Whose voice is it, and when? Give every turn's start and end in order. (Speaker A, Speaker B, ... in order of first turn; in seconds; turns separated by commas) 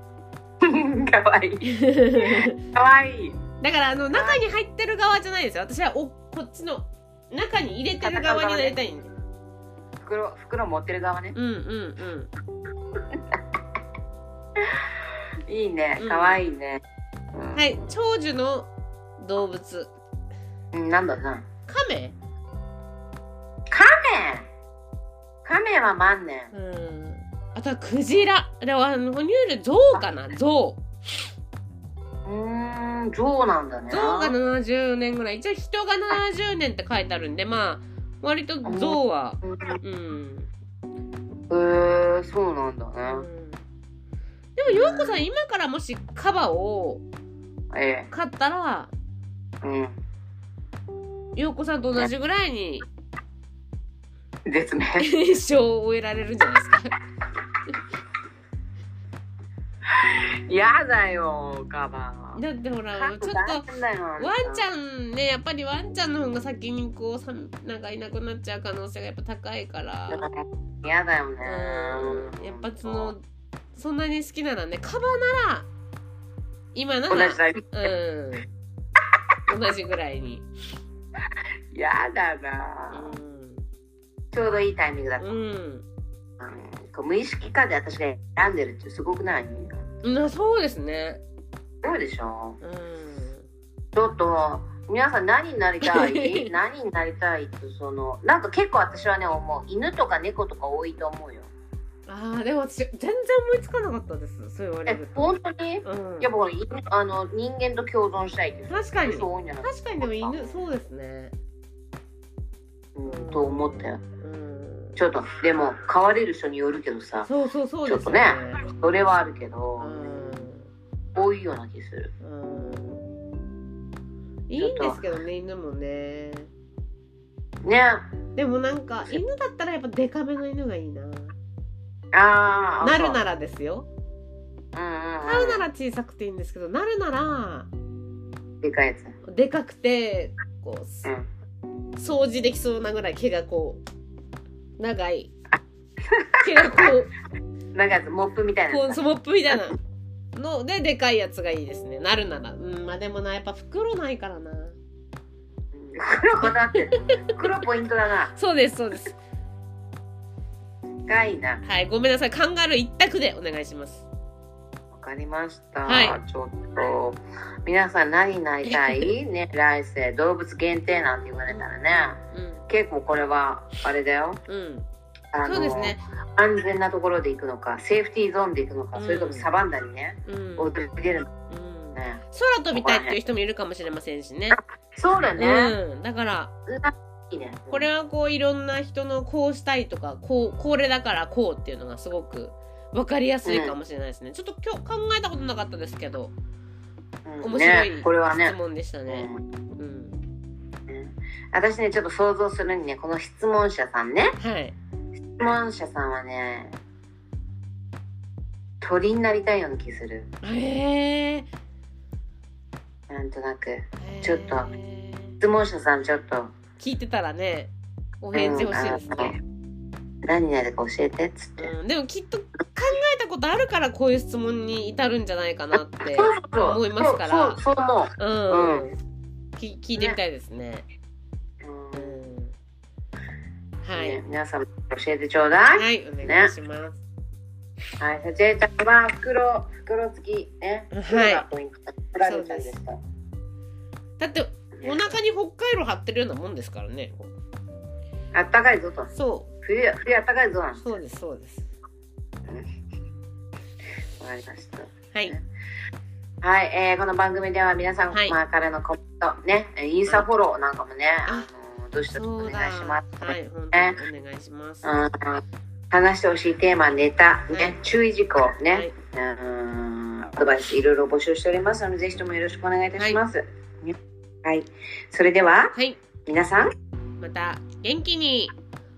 Speaker A: 0.6-3.4, Speaker B: 1.6-2.5, Speaker B: 3.6-9.1, Speaker A: 4.1-4.4, Speaker A: 8.0-8.8, Speaker A: 10.0-11.3, Speaker B: 11.3-12.3, Speaker A: 15.5-16.8, Speaker B: 16.0-16.4, Speaker A: 17.3-17.6, Speaker B: 17.5-19.9, Speaker A: 20.7-21.4, Speaker B: 21.7-22.1, Speaker A: 23.7-24.5, Speaker A: 25.4-26.5, Speaker B: 26.5-30.8, Speaker A: 32.2-34.3, Speaker B: 33.9-40.5, Speaker A: 38.6-39.8, Speaker A: 41.5-43.3, Speaker B: 43.0-43.6, Speaker B: 44.5-47.0, Speaker A: 44.7-45.2, Speaker A: 47.7-48.1, Speaker B: 48.1-48.9, Speaker A: 49.6-50.0, Speaker B: 51.3-52.9, Speaker A: 54.5-55.1, Speaker B: 55.0-56.9, Speaker A: 60.5-62.4, Speaker B: 62.3-63.6, Speaker A: 62.9-64.6, Speaker B: 64.2-70.2, Speaker A: 70.1-73.1, Speaker B: 71.4-73.2, Speaker B: 73.8-75.7, Speaker B: 76.7-78.5, Speaker A: 77.1-77.9, Speaker B: 79.5-80.5, Speaker A: 81.7-83.2, Speaker B: 82.9-83.6, Speaker A: 84.3-85.4, Speaker B: 85.2-85.8, Speaker A: 86.4-89.8, Speaker B: 90.0-91.2, Speaker A: 91.8-92.6, Speaker B: 92.6-93.5, Speaker A: 93.9-101.5, Speaker B: 95.8-96.5, Speaker B: 102.1-105.3, Speaker A: 104.9-110.7, Speaker B: 105.8-106.3, Speaker B: 108.7-111.3, Speaker A: 113.0-114.0, Speaker B: 113.0-115.0, Speaker A: 115.0-117.3, Speaker B: 117.2-118.6, Speaker A: 117.9-120.4, Speaker B: 119.8-120.7, Speaker A: 121.1-122.1, Speaker B: 122.2-123.1, Speaker B: 124.5-126.5, Speaker A: 124.6-125.0, Speaker A: 127.6-128.1, Speaker B: 128.3-131.3, Speaker A: 132.1-133.2, Speaker B: 132.8-133.9, Speaker A: 134.7-135.7, Speaker B: 135.2-137.7, Speaker A: 138.6-139.1, Speaker B: 139.3-141.1, Speaker B: 142.0-143.8, Speaker B: 144.8-145.3, Speaker A: 146.1-146.9, Speaker B: 146.4-147.1, Speaker A: 147.7-149.0, Speaker B: 148.7-149.8, Speaker B: 150.3-154.8, Speaker A: 155.7-158.3, Speaker B: 158.3-159.1, Speaker A: 161.1-161.6, Speaker B: 161.6-164.1, Speaker A: 164.9-174.4, Speaker B: 165.8-166.2, Speaker B: 168.7-169.1, Speaker B: 172.3-172.7, Speaker B: 174.5-174.9, Speaker A: 175.3-181.3, Speaker B: 175.4-176.0, Speaker B: 178.9-179.5, Speaker B: 180.2-180.8, Speaker B: 181.5-184.6, Speaker A: 181.9-183.2, Speaker A: 184.5-185.8, Speaker B: 185.4-186.5, Speaker A: 186.7-187.9, Speaker B: 187.7-196.3, Speaker A: 193.4-193.7, Speaker A: 197.2-198.6, Speaker B: 197.4-200.2, Speaker A: 199.1-199.4, Speaker A: 200.9-204.3, Speaker B: 204.4-204.7, Speaker A: 205.4-206.8, Speaker A: 208.8-210.3, Speaker B: 210.4-211.5, Speaker A: 213.1-214.7, Speaker B: 214.0-215.4, Speaker A: 215.4-216.5, Speaker B: 216.8-217.7, Speaker B: 218.2-219.3, Speaker A: 218.3-219.4, Speaker A: 220.2-221.7, Speaker B: 221.6-227.6, Speaker A: 226.0-228.9, Speaker B: 228.2-228.9, Speaker B: 229.6-230.9, Speaker A: 231.6-232.2, Speaker B: 231.9-232.5, Speaker B: 233.8-234.2, Speaker A: 233.9-236.5, Speaker B: 235.7-237.0, Speaker A: 238.0-243.0, Speaker B: 240.9-241.4, Speaker B: 242.2-242.8, Speaker B: 244.2-247.3, Speaker A: 244.8-245.1, Speaker A: 248.3-249.1, Speaker B: 249.1-249.5, Speaker A: 249.6-250.8, Speaker B: 250.8-251.7, Speaker A: 254.2-255.4, Speaker A: 256.4-264.0, Speaker B: 258.1-258.4, Speaker B: 262.1-265.0, Speaker A: 264.8-275.7, Speaker B: 275.7-276.0, Speaker A: 276.2-276.7, Speaker B: 277.2-278.5